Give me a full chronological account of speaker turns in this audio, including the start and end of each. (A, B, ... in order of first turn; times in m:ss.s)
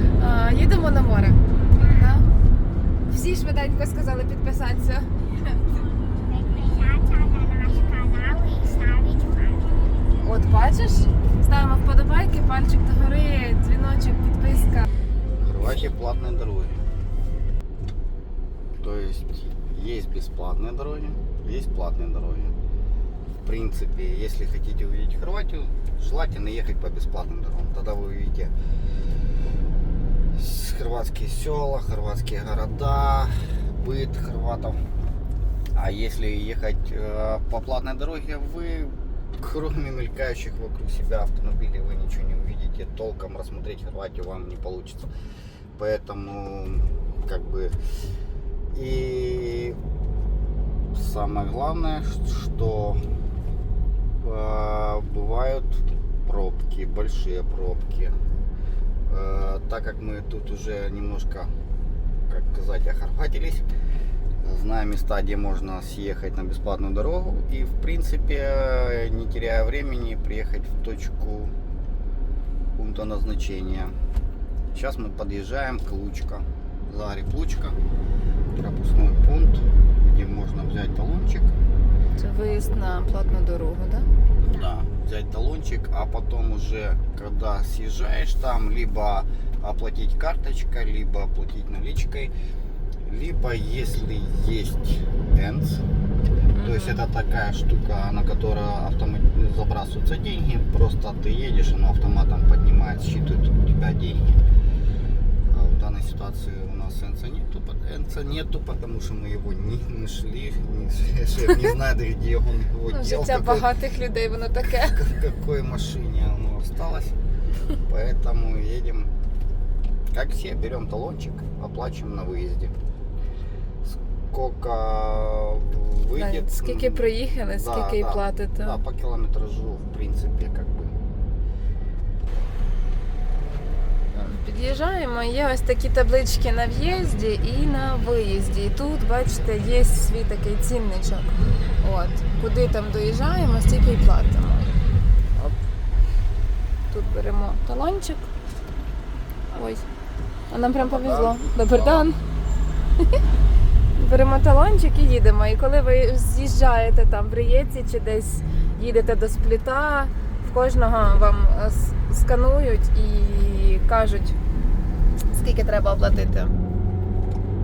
0:00.2-0:02.2 A
0:01.8-0:02.0 B
0:03.1-0:05.6 A
0:06.2-0:10.0 B
0:10.2-0:14.9 A
0:15.4-0:16.8 C
0:18.8-0:22.6 C
0:23.4-0:28.5 C
0:30.3-0:34.8 C
0:35.8-0:45.1 C
0:45.8-0:47.8 C
0:48.7-0:49.8 C
0:50.9-0:53.0 C
0:54.2-0:58.2 C
0:59.1-1:01.5 C
1:02.3-1:03.7 C
1:04.4-1:11.5 C
1:12.8-1:14.0 C
1:14.7-1:17.8 C
1:18.6-1:21.6 C
1:22.2-1:24.1 A
1:24.4-1:32.3 C
1:33.0-1:35.8 C
1:36.5-1:37.0 A
1:36.6-1:44.4 C
1:45.5-1:53.7 C
1:52.9-1:55.0 A
1:54.9-1:57.2 C
1:57.8-1:59.1 C
2:00.1-2:02.7 C
2:03.8-2:11.0 C
2:06.1-2:08.8 A
2:14.1-2:24.8 A
2:26.9-2:28.3 A
2:29.5-2:29.8 A
2:30.5-2:32.2 A
2:30.8-2:32.1 C
2:34.0-2:44.4 A
2:45.3-2:46.5 A